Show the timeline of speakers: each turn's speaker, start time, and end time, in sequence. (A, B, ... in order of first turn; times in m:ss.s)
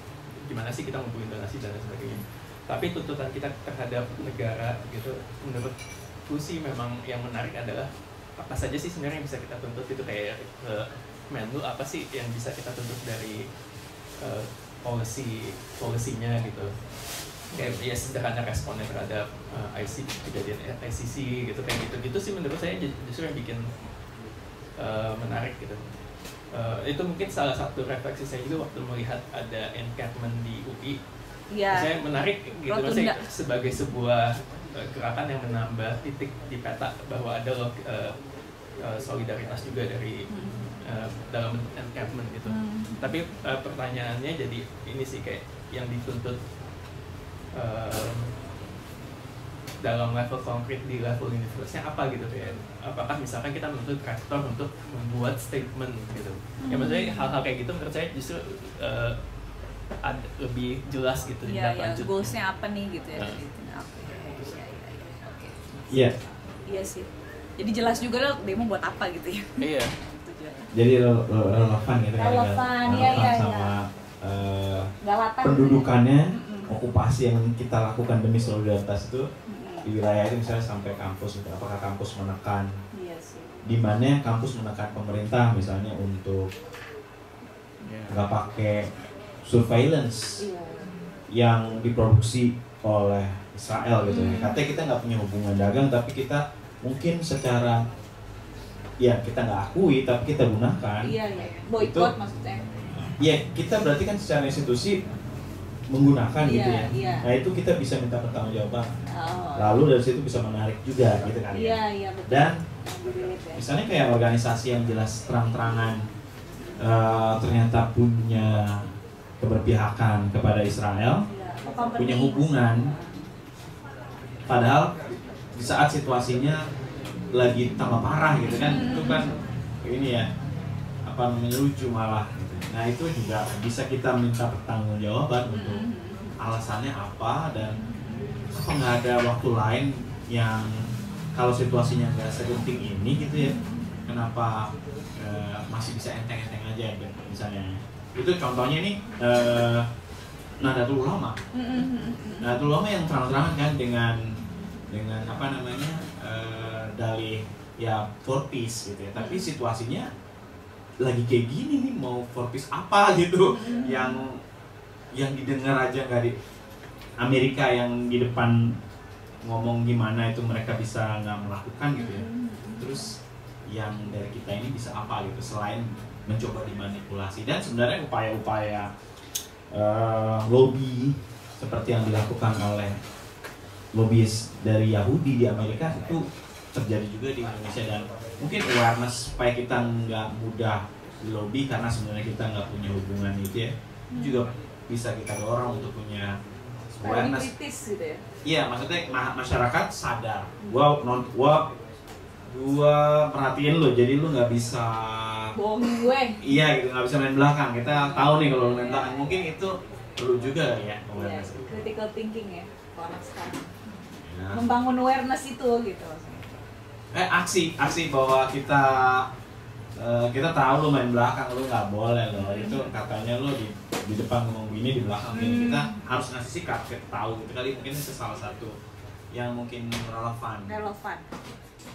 0:00.4-0:05.7 A
0:06.3-0:13.4 A
0:14.2-0:16.7 A
0:17.5-0:23.6 A
0:24.8-0:25.8 A
0:26.5-0:31.0 A
0:31.5-0:31.9 B
0:31.7-0:38.2 A
0:32.6-0:33.2 B
0:38.8-0:40.2 A
0:40.3-0:40.8 B
0:40.8-0:46.4 A
0:42.4-0:43.2 B
0:47.5-0:48.3 A
0:49.8-0:59.2 A
0:56.6-0:57.4 B
1:00.0-1:02.4 A
1:01.4-1:05.6 B
1:03.1-1:03.4 A
1:05.9-1:06.1 C
1:06.6-1:10.6 B
1:09.6-1:09.9 A
1:10.7-1:14.9 C
1:12.2-1:13.7 B
1:15.0-1:16.8 B
1:15.4-1:19.3 C
1:19.5-1:19.9 B
1:19.8-1:22.7 C
1:22.9-1:23.6 B
1:23.6-1:26.5 C
1:28.1-1:28.9 C
1:29.4-1:30.4 C
1:30.4-1:31.0 B
1:31.3-1:37.8 C
1:34.0-1:34.6 B
1:39.0-1:42.1 C
1:41.0-1:42.8 B
1:43.2-1:45.0 C
1:45.9-1:48.9 C
1:46.4-1:47.3 B
1:49.1-1:49.8 B
1:49.5-1:52.6 C
1:51.5-1:53.7 B
1:53.5-1:56.0 C
1:56.8-1:58.9 C
1:59.4-2:01.2 C
2:01.3-2:03.2 B
2:02.0-2:02.9 C
2:04.5-2:04.9 C
2:05.5-2:06.6 C
2:07.3-2:09.3 C
2:08.5-2:09.3 B
2:09.8-2:10.3 C
2:11.0-2:15.8 C
2:15.5-2:16.3 B
2:16.4-2:17.8 C
2:17.6-2:18.4 B
2:18.5-2:29.9 C
2:23.3-2:23.9 B
2:30.6-2:31.4 C
2:31.5-2:32.5 B
2:32.4-2:34.3 C
2:34.4-2:34.7 B
2:34.9-2:40.1 C
2:39.1-2:39.5 B
2:41.0-2:44.4 C
2:43.5-2:44.2 B
2:45.1-2:46.4 C
2:47.2-2:48.8 C
2:49.4-2:53.2 C
2:51.9-2:53.0 B
2:53.7-2:58.9 C
2:59.7-3:03.0 C
3:03.9-3:17.5 C
3:14.1-3:14.5 B
3:17.0-3:18.2 B
3:18.4-3:21.7 C
3:22.5-3:25.5 C
3:25.6-3:26.5 B
3:26.4-3:31.6 C
3:27.9-3:29.6 B
3:31.1-3:36.6 B
3:34.3-3:34.7 C
3:37.1-3:39.3 C
3:40.0-3:48.8 C
3:42.3-3:42.8 B
3:45.3-3:46.0 B
3:49.3-3:50.7 C
3:50.6-3:51.3 B